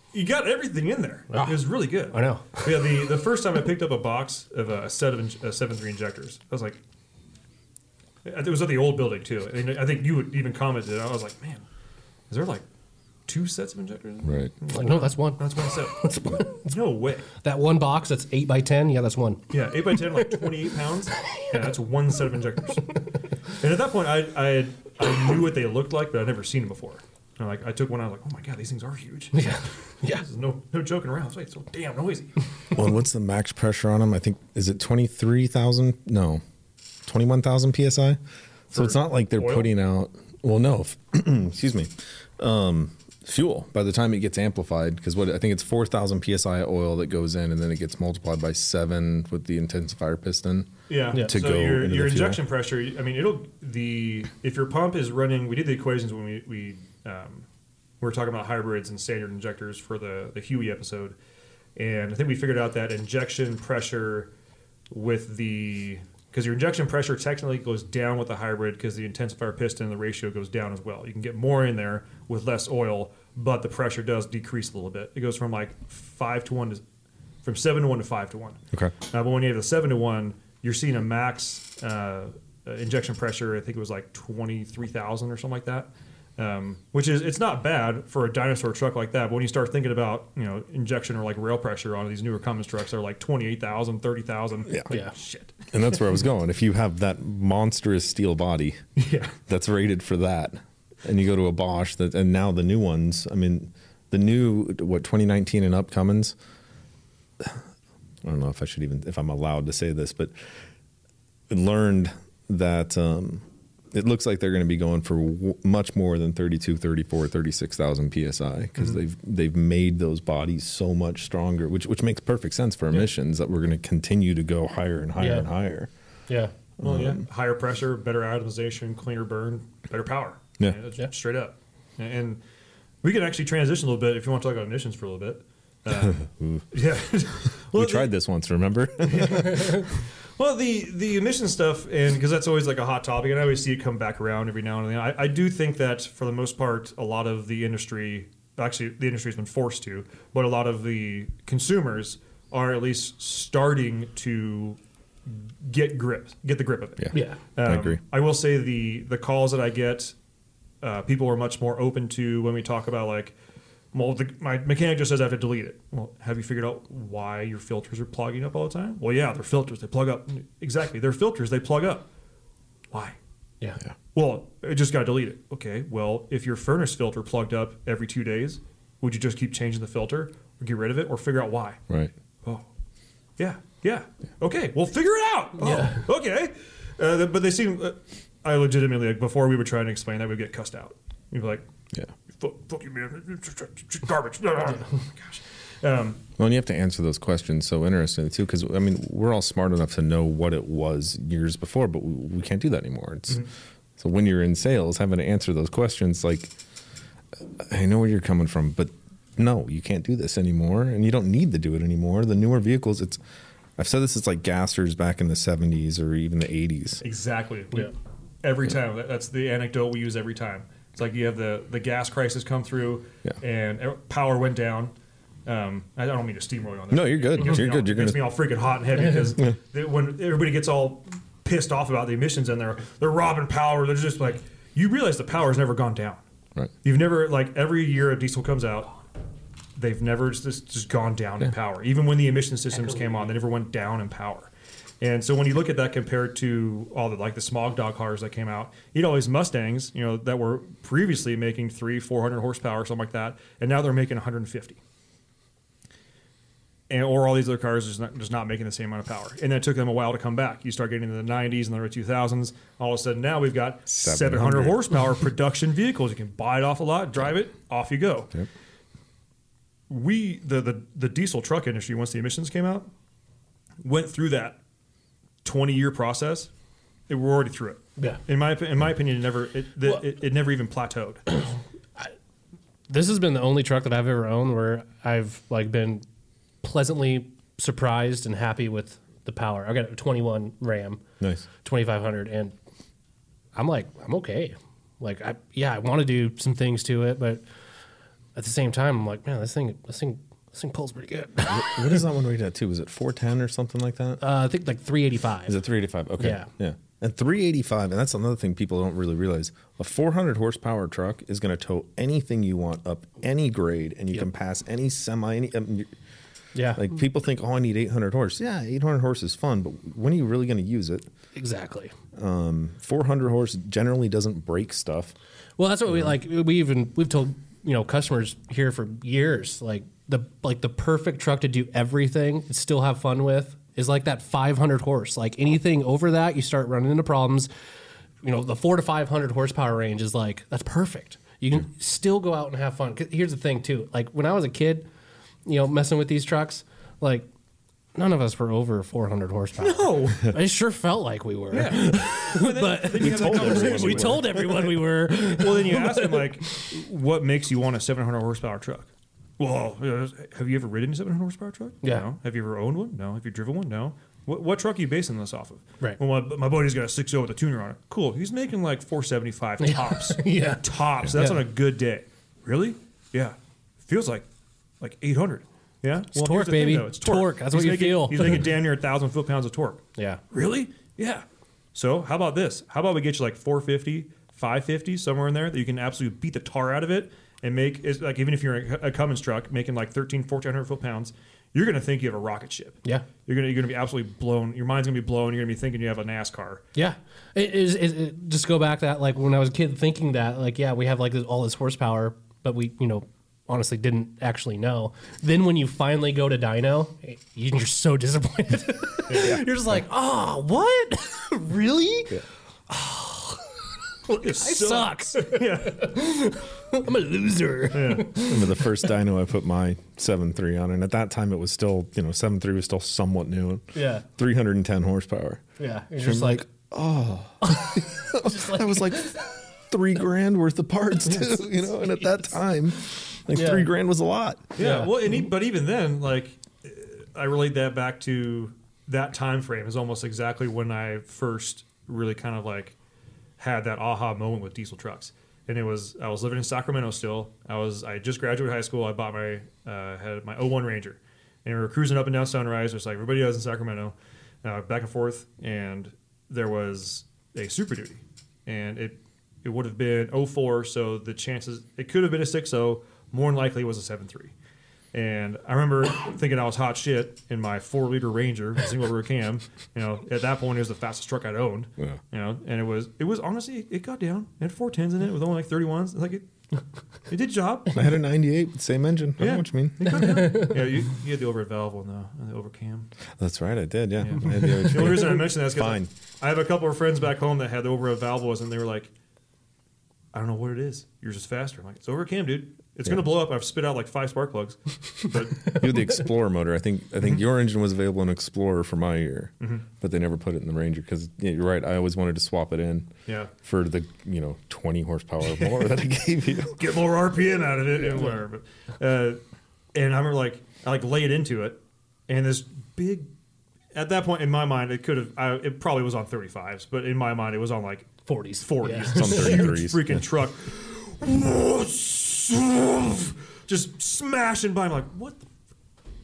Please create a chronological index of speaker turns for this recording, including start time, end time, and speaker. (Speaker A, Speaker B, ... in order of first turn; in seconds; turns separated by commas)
Speaker A: 0.1-6.8, Speaker B: 1.3-3.0, Speaker A: 8.2-11.7, Speaker A: 12.3-12.7, Speaker A: 13.3-17.3, Speaker C: 14.2-14.5, Speaker B: 14.7-16.7, Speaker B: 17.4-20.7, Speaker A: 19.5-23.0, Speaker B: 21.2-21.7, Speaker A: 23.6-29.6, Speaker B: 29.3-30.2, Speaker A: 30.1-32.4, Speaker C: 32.7-36.4, Speaker C: 37.0-38.2, Speaker A: 38.7-39.7, Speaker C: 38.7-52.4, Speaker A: 50.9-57.5, Speaker A: 58.0-61.1, Speaker A: 61.8-64.3, Speaker A: 64.9-76.8, Speaker A: 77.4-95.7, Speaker C: 95.7-98.8, Speaker A: 99.0-99.3, Speaker C: 99.5-106.4, Speaker C: 108.2-110.3, Speaker C: 111.5-125.9, Speaker B: 125.2-125.5, Speaker B: 126.3-126.5, Speaker A: 126.8-132.4, Speaker C: 126.8-127.2, Speaker A: 133.0-138.1, Speaker C: 135.9-136.7, Speaker C: 137.7-139.8, Speaker A: 139.1-160.1, Speaker B: 157.1-157.4, Speaker C: 157.7-158.0, Speaker A: 160.8-163.3, Speaker A: 163.9-172.1, Speaker A: 172.9-173.2, Speaker A: 174.1-181.8, Speaker A: 183.4-191.7, Speaker B: 185.6-186.1, Speaker A: 192.4-196.2, Speaker C: 196.4-203.5, Speaker C: 204.0-206.5, Speaker C: 207.6-213.2, Speaker C: 213.8-217.0, Speaker A: 217.0-224.9, Speaker A: 225.5-236.2, Speaker C: 226.9-228.3, Speaker A: 236.8-238.9, Speaker A: 239.8-254.8, Speaker A: 256.9-268.3, Speaker C: 263.9-264.9, Speaker A: 269.9-272.9, Speaker A: 273.8-274.6, Speaker A: 275.4-276.5, Speaker A: 277.1-281.2, Speaker B: 281.3-282.1, Speaker B: 282.9-286.0, Speaker B: 286.6-291.0, Speaker C: 291.2-291.5, Speaker B: 291.6-292.5, Speaker B: 293.6-297.4, Speaker B: 298.4-302.0, Speaker C: 301.5-304.2, Speaker B: 304.2-305.6, Speaker C: 305.5-315.9, Speaker B: 306.2-306.5, Speaker B: 316.6-316.8, Speaker C: 316.7-321.1, Speaker B: 321.3-321.9, Speaker C: 322.1-325.1, Speaker B: 325.6-337.5, Speaker B: 338.2-344.9, Speaker B: 345.4-347.3, Speaker B: 347.9-356.4, Speaker A: 349.6-350.3, Speaker A: 351.5-374.3, Speaker C: 353.0-354.8, Speaker B: 369.6-371.5, Speaker A: 374.8-396.6, Speaker B: 376.1-378.5, Speaker B: 380.0-380.2, Speaker B: 396.8-413.6, Speaker A: 409.1-409.5, Speaker C: 409.2-409.4, Speaker B: 414.1-418.8, Speaker A: 414.2-415.9, Speaker A: 417.7-418.2, Speaker C: 418.2-425.4, Speaker B: 423.7-424.1, Speaker B: 425.6-426.4, Speaker C: 426.0-434.6, Speaker B: 427.4-429.2, Speaker B: 431.1-432.1, Speaker B: 433.3-433.7, Speaker A: 434.6-442.8, Speaker B: 434.6-434.9, Speaker A: 443.4-464.3, Speaker A: 464.9-476.3, Speaker A: 477.1-477.8, Speaker C: 477.7-480.2, Speaker A: 479.2-482.9, Speaker B: 479.9-480.6, Speaker C: 483.2-485.9, Speaker A: 484.0-488.9, Speaker A: 490.1-495.7, Speaker B: 495.5-495.8, Speaker C: 495.5-506.7, Speaker A: 503.1-503.3, Speaker A: 505.2-505.7, Speaker A: 506.6-509.2, Speaker A: 509.7-513.1, Speaker A: 513.7-525.3, Speaker B: 518.1-519.6, Speaker C: 518.9-520.0